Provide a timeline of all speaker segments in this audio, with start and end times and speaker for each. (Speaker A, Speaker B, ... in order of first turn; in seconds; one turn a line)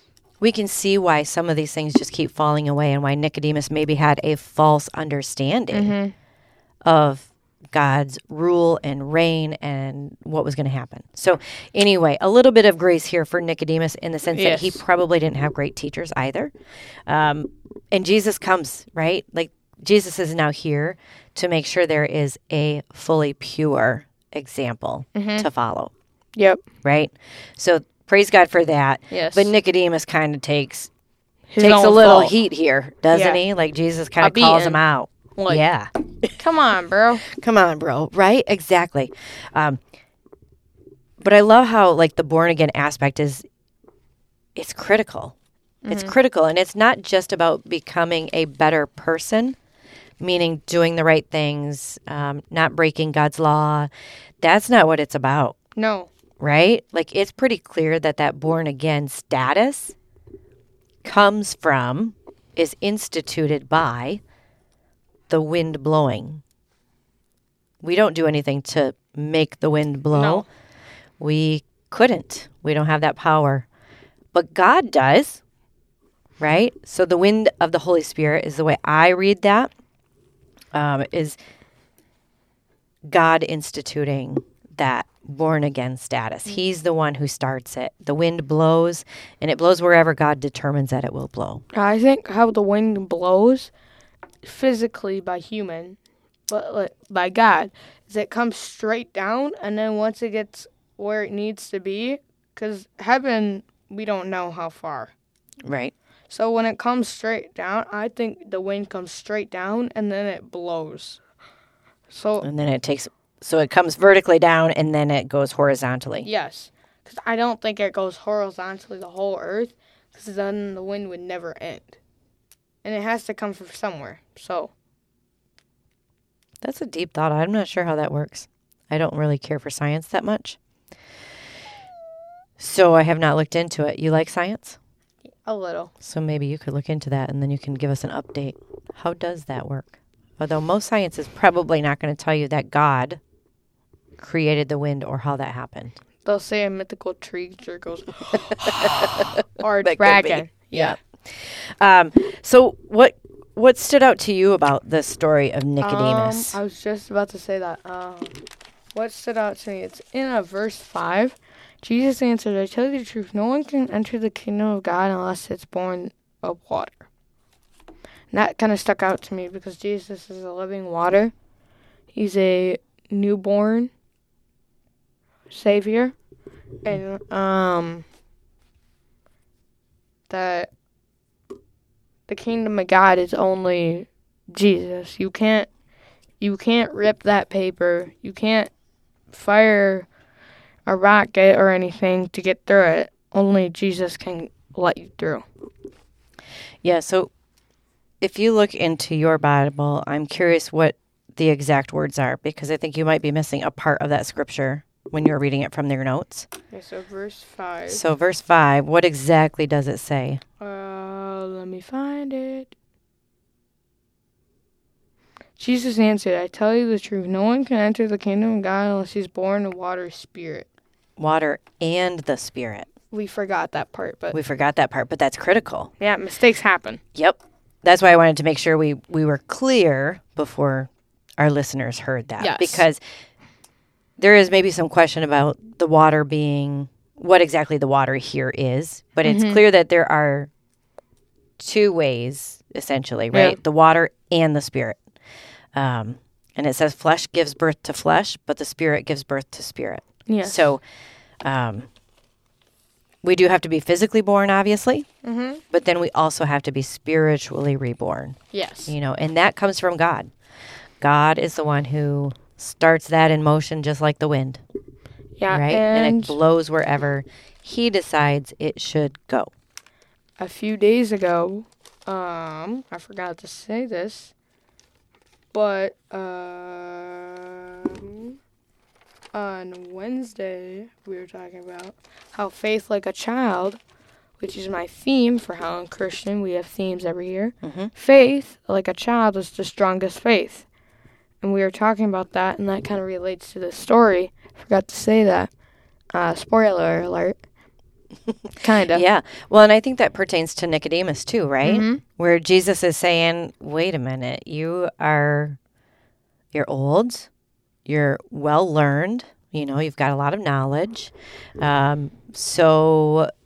Speaker A: 0.4-5.9
Speaker B: 5.7-6.1
Speaker A: 6.9-16.5
Speaker B: 14.3-14.8
Speaker A: 17.1-25.9
Speaker B: 25.1-25.5
Speaker B: 26.4-26.6
Speaker A: 26.8-30.9
Speaker B: 29.1-29.5
Speaker B: 31.5-32.3
Speaker A: 31.6-35.9
Speaker B: 33.1-33.4
Speaker B: 34.2-34.8
Speaker B: 35.4-35.6
Speaker B: 36.4-37.2
Speaker A: 37.3-39.8
Speaker A: 41.2-43.5
Speaker A: 44.6-45.3
Speaker B: 45.8-46.1
Speaker A: 45.9-49.6
Speaker A: 50.2-53.9
Speaker A: 54.4-55.6
Speaker B: 55.8-56.1
Speaker A: 56.4-60.0
Speaker A: 61.0-64.2
Speaker A: 65.3-66.4
Speaker A: 67.8-70.5
Speaker B: 70.1-70.5
Speaker A: 71.2-73.7
Speaker A: 74.3-75.4
Speaker A: 76.4-79.7
Speaker A: 80.7-81.4
Speaker A: 83.1-91.6
Speaker B: 91.7-93.7
Speaker B: 94.4-105.1
Speaker A: 105.7-105.9
Speaker B: 106.3-111.2
Speaker B: 112.1-112.5
Speaker A: 112.4-116.3
Speaker B: 116.2-122.0
Speaker B: 122.8-124.7
Speaker A: 126.6-130.6
Speaker A: 132.6-134.8
Speaker B: 135.3-135.9
Speaker A: 136.0-143.2
Speaker A: 144.2-145.9
Speaker B: 146.2-151.0
Speaker A: 148.7-149.2
Speaker A: 149.8-156.6
Speaker B: 155.8-158.4
Speaker B: 158.9-167.1
Speaker B: 168.3-171.3
Speaker B: 172.1-173.9
Speaker B: 175.5-176.2
Speaker B: 176.8-178.1
Speaker B: 180.3-180.7
Speaker B: 182.3-185.7
Speaker B: 186.4-188.7
Speaker B: 189.3-190.1
Speaker B: 190.9-195.5
Speaker A: 196.8-197.3
Speaker A: 198.2-206.5
Speaker B: 206.7-208.0
Speaker A: 207.9-210.4
Speaker B: 210.6-212.7
Speaker B: 215.6-220.7
Speaker A: 221.2-222.9
Speaker B: 223.1-224.4
Speaker A: 224.3-225.9
Speaker B: 226.0-227.0
Speaker A: 227.2-233.0
Speaker B: 232.4-232.9
Speaker A: 234.2-240.5
Speaker B: 239.2-239.6
Speaker A: 241.6-245.0
Speaker A: 245.8-250.8
Speaker B: 250.3-250.7
Speaker A: 251.4-251.9
Speaker A: 253.2-255.1
Speaker B: 255.2-255.6
Speaker A: 255.7-260.3
Speaker B: 258.5-258.9
Speaker A: 261.0-264.6
Speaker B: 265.4-266.4
Speaker A: 265.5-269.5
Speaker B: 270.4-274.3
Speaker B: 275.5-278.4
Speaker B: 279.3-283.8
Speaker B: 284.4-290.7
Speaker A: 287.6-287.9
Speaker B: 291.4-295.5
Speaker B: 296.1-297.4
Speaker B: 298.6-299.0
Speaker A: 298.9-305.6
Speaker B: 301.6-302.0
Speaker A: 306.5-307.3
Speaker A: 307.9-313.3